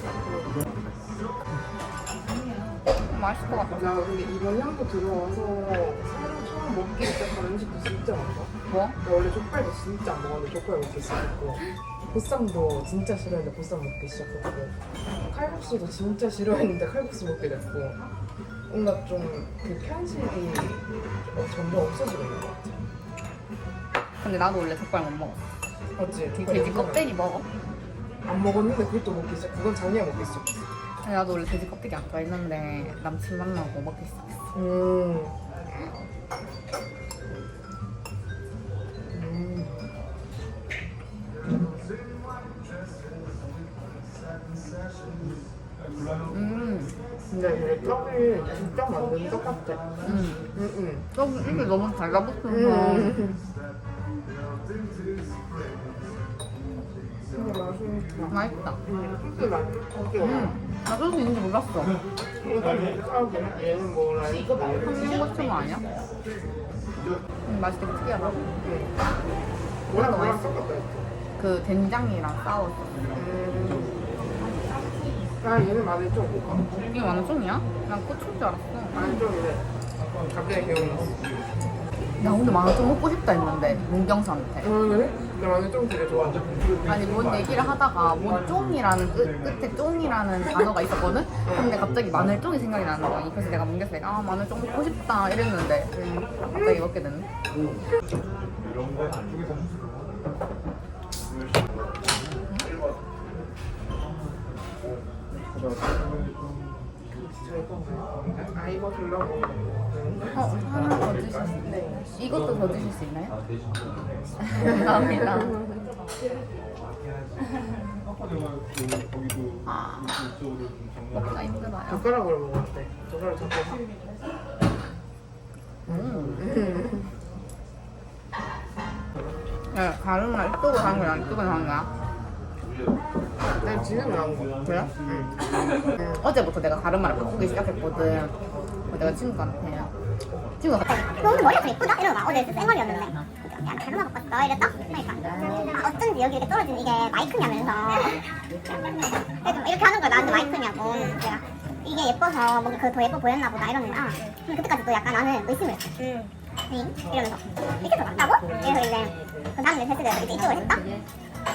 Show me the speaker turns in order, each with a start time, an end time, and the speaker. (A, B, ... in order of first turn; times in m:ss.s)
0:00.2-0:00.5 A
0:03.0-0:03.8 B
0:03.7-0:14.8 A
0:08.7-0:09.0 B
0:15.3-0:18.0 A
0:18.7-0:22.8 A
0:24.2-0:25.4 B
0:26.0-0:27.1 A
0:26.3-0:27.5 B
0:28.2-0:30.6 A
0:31.0-0:34.4 B
0:32.7-0:33.0 A
0:34.5-0:35.4 A
0:39.1-0:39.8 A
0:46.3-0:46.9 B
0:47.3-0:50.0 A
0:50.0-0:50.4 B
0:50.5-0:51.7 A
0:51.1-0:53.3 B
0:52.4-0:53.4 A
0:57.3-1:00.6 A
0:58.3-0:58.8 B
1:00.2-1:02.0 B
1:02.4-1:05.3 A
1:04.8-1:05.8 B
1:07.5-1:08.6 B
1:08.6-1:08.9 A
1:09.9-1:11.1 A
1:09.9-1:10.5 B
1:11.4-1:13.0 B
1:13.1-1:14.0 A
1:15.4-1:16.7 A
1:16.9-1:19.1 B
1:18.9-1:19.6 A
1:20.2-1:21.3 A
1:22.2-1:24.7 B
1:24.6-1:27.2 A
1:26.9-1:35.9 B
1:31.4-1:31.8 A
1:33.4-1:33.6 A
1:35.9-1:36.9 A
1:36.6-1:37.3 B
1:47.2-1:50.7 A
1:50.3-1:53.4 B
1:51.6-1:52.2 A
1:54.4-1:55.6 B
1:54.6-1:55.8 A
1:59.6-2:00.3 B
2:01.1-2:02.0 B
2:01.9-2:03.8 A
2:05.8-2:06.6 B
2:05.9-2:07.1 A
2:09.7-2:11.9 B
2:13.6-2:15.3 A
2:14.6-2:14.9 B
2:16.2-2:18.3 B
2:18.9-2:19.9 B
2:20.6-2:21.3 B
2:20.9-2:28.2 C
2:29.4-2:40.8 C